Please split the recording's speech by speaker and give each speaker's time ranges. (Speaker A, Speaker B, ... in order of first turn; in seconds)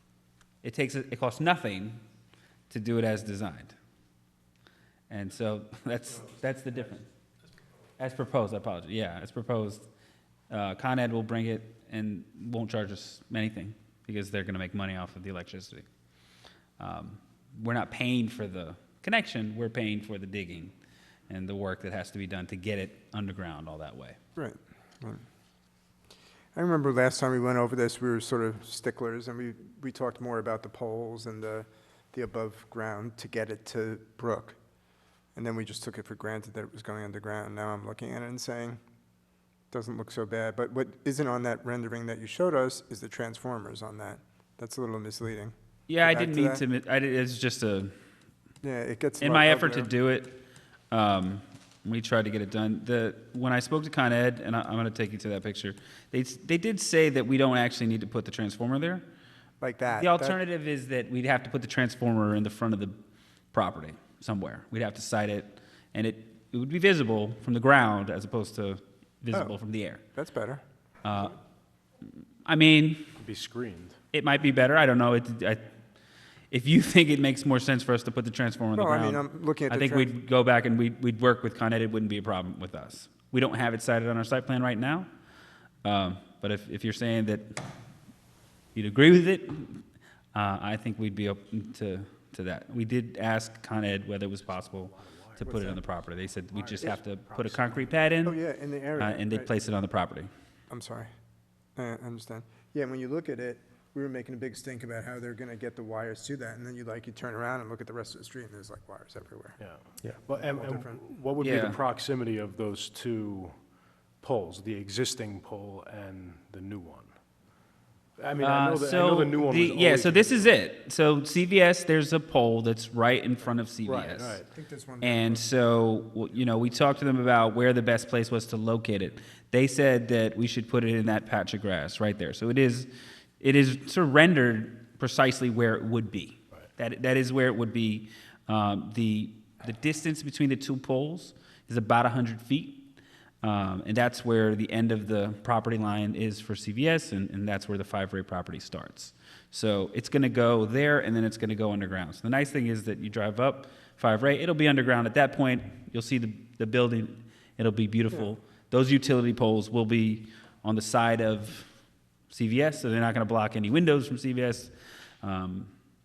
Speaker A: 0.6-2.0, 2.7-3.7, 5.1-7.1, 8.0-9.8, 10.5-15.9, 16.8-20.7, 21.3-24.2, 45.9-47.9, 49.2-50.4, 50.9-59.0, 60.0-63.0, 63.5-70.0, 71.0-71.4, 72.4-73.0, 74.1-75.6, 76.5-85.1, 85.8-87.6, 88.7-89.8, 90.3-98.3, 99.0-100.3, 111.4-111.8, 118.4-124.4, 125.0-142.9, 143.4-161.7, 162.3-164.7, 165.2-165.7
Speaker B: 24.4-25.2, 26.5-34.6, 35.3-38.8, 39.7-45.5, 46.0-46.6, 48.6-49.9, 59.6-60.4, 70.1-70.6, 78.7-80.1, 95.4-95.8, 96.6-97.0, 98.2-99.5, 100.7-101.1, 101.8-109.6, 110.3-111.0, 124.5-125.5
Speaker C: 73.2-74.0, 94.5-95.5, 96.5-97.9, 109.6-113.5, 114.2-117.1, 118.2-120.6, 123.8-124.5